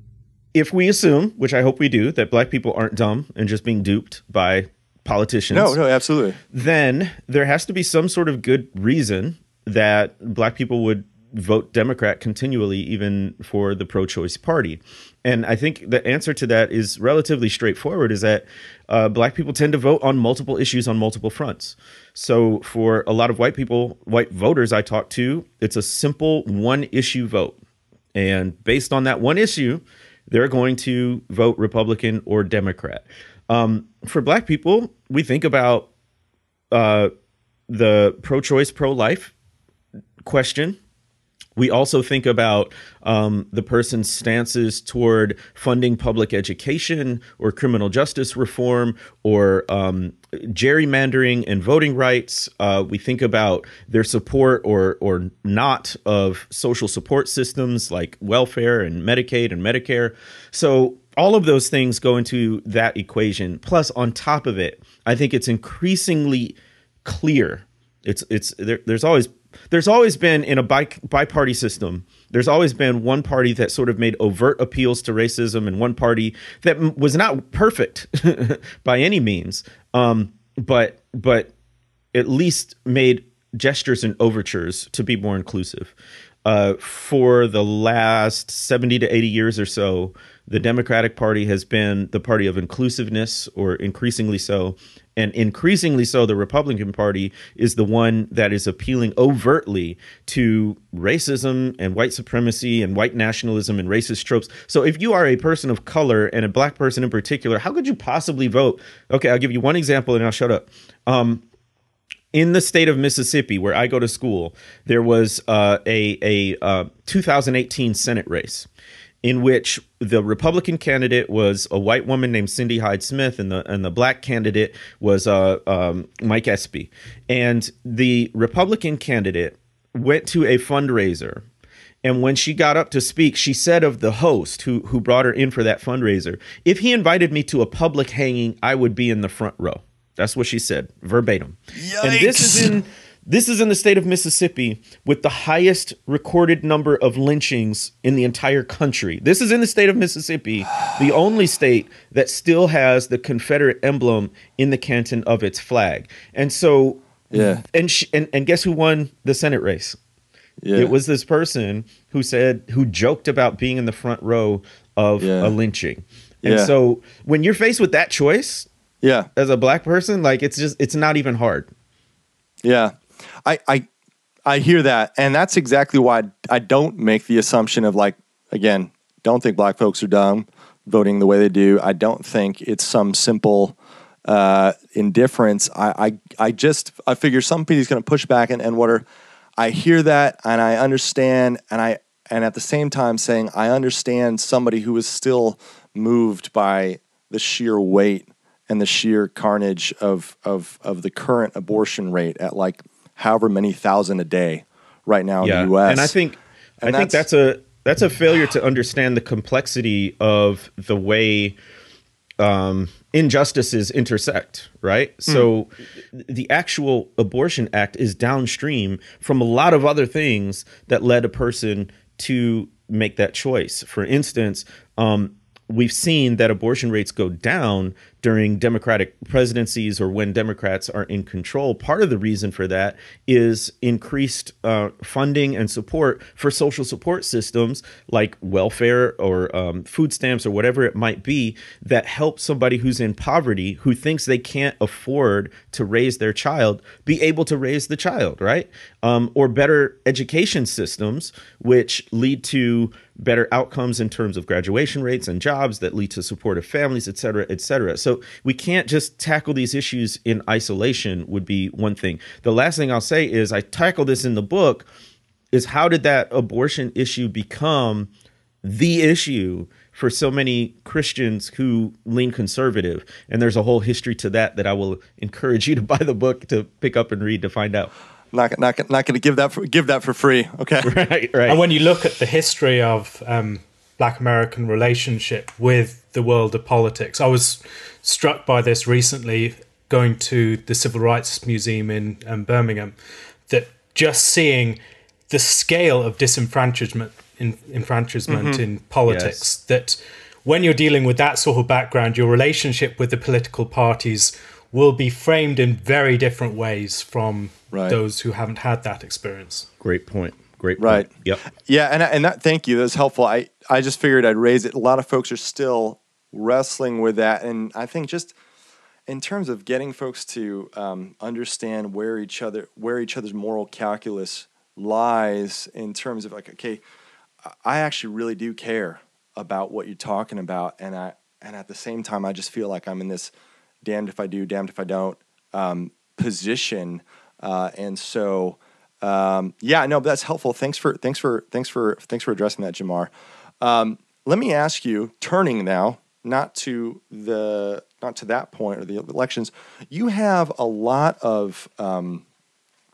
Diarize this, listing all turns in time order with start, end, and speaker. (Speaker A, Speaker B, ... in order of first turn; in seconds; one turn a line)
Speaker A: 0.5-5.8
Speaker B: 5.5-6.4
Speaker A: 6.5-27.6
Speaker A: 28.1-35.9
Speaker A: 36.7-37.1
Speaker A: 37.7-39.3
Speaker A: 40.2-40.8
Speaker A: 41.6-81.5
Speaker A: 82.1-85.9
Speaker A: 86.5-111.4
Speaker A: 112.3-118.7
Speaker A: 119.2-131.4
Speaker A: 132.0-160.0
Speaker B: 141.8-142.8
Speaker B: 157.3-157.6
Speaker B: 160.6-160.9
Speaker A: 160.8-168.7
Speaker B: 165.2-165.6
Speaker B: 166.4-166.7
Speaker B: 169.0-169.3
Speaker A: 169.4-171.7
Speaker B: 172.6-173.9
Speaker B: 174.5-189.1
Speaker B: 189.6-206.2
Speaker A: 205.4-211.6
Speaker B: 206.8-207.3
Speaker A: 212.4-264.9
Speaker A: 265.5-268.1
Speaker A: 268.6-277.9
Speaker B: 278.3-280.9
Speaker A: 280.8-281.6
Speaker C: 281.5-292.9
Speaker C: 293.5-309.7
Speaker B: 298.3-298.6
Speaker A: 299.1-299.4
Speaker B: 307.7-308.0
Speaker A: 309.8-311.4
Speaker B: 310.8-318.3
Speaker B: 319.1-326.8
Speaker B: 327.5-333.3
Speaker B: 333.8-352.2